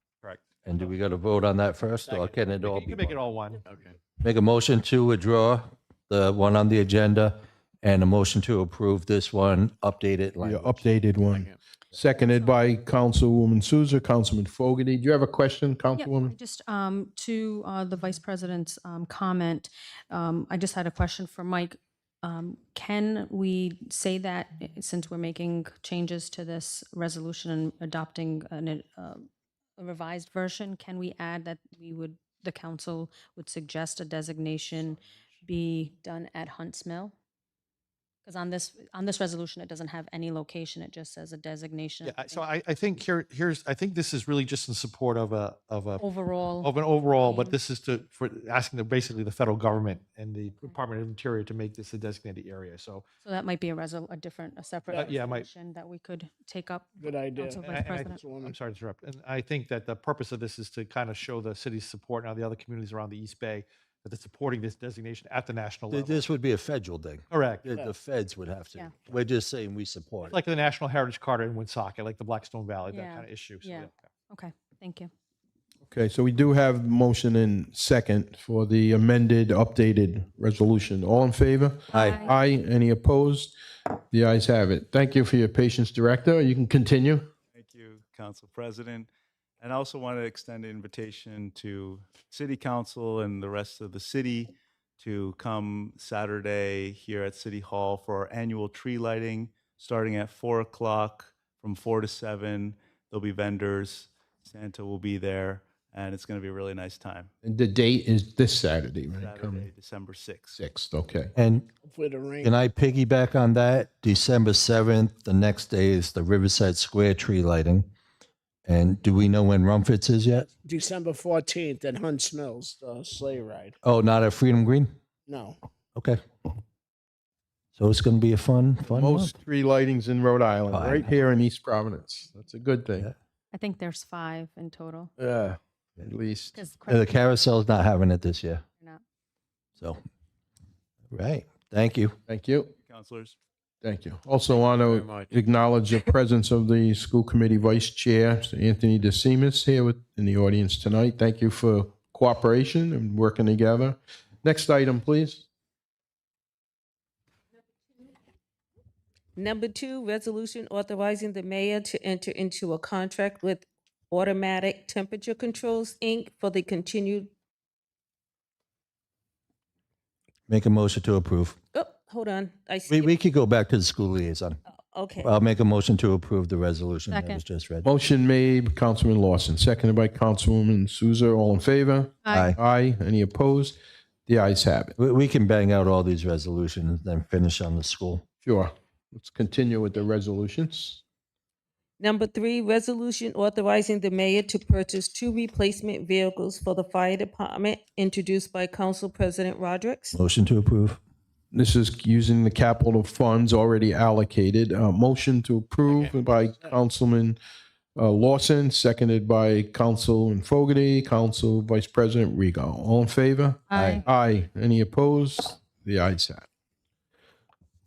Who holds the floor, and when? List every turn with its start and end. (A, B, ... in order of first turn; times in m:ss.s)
0:00.2-0:00.7 A
0:00.6-0:03.2 B
0:02.1-0:03.6 A
0:04.2-0:10.8 B
0:10.4-0:16.3 C
0:12.2-0:12.5 D
0:16.0-0:29.3 D
0:29.8-0:37.1 D
0:38.2-0:42.5 D
0:42.0-0:46.0 A
0:46.0-0:47.6 D
0:46.6-0:53.0 A
0:53.2-0:58.2 D
0:54.9-0:55.2 E
0:55.0-0:55.5 A
0:57.0-0:58.6 E
0:57.6-1:06.3 A
1:05.9-1:10.4 B
1:07.3-1:07.7 A
1:07.7-1:08.0 E
1:10.2-1:14.1 A
1:12.9-1:15.1 D
1:15.9-1:23.5 C
1:21.9-1:22.4 D
1:21.9-1:22.2 B
1:24.1-1:27.3 C
1:27.5-1:29.1 F
1:29.6-1:47.3 F
1:47.4-1:49.7 C
1:49.2-1:50.6 F
1:50.6-1:51.3 C
1:51.4-1:51.7 B
1:51.8-1:52.5 E
1:52.4-1:57.9 B
1:58.7-2:00.5 B
2:00.4-2:03.8 E
2:03.8-2:04.9 B
2:05.3-2:05.6 E
2:07.8-2:09.3 B
2:08.9-2:13.1 C
2:10.7-2:11.1 B
2:13.5-2:15.1 D
2:15.2-2:16.6 C
2:16.5-2:17.1 D
2:16.9-2:18.6 B
2:21.1-2:22.2 B
2:22.3-2:22.7 C
2:22.8-2:23.4 F
2:23.8-2:35.4 C
2:25.0-2:25.3 F
2:39.4-2:47.3 G
2:50.5-2:51.6 B
2:51.7-2:53.1 G
2:52.9-2:54.6 B
2:54.9-2:55.3 G
2:55.2-2:57.8 B
2:57.1-2:57.4 D
2:57.8-3:05.0 C
3:02.2-3:02.5 D
3:05.0-3:08.2 B
3:08.4-3:11.0 C
3:12.0-3:20.2 G
3:20.1-3:21.0 B
3:21.5-3:27.4 C
3:25.9-3:26.8 E
3:28.0-3:36.5 C
3:33.7-3:34.0 D
3:33.8-3:34.0 B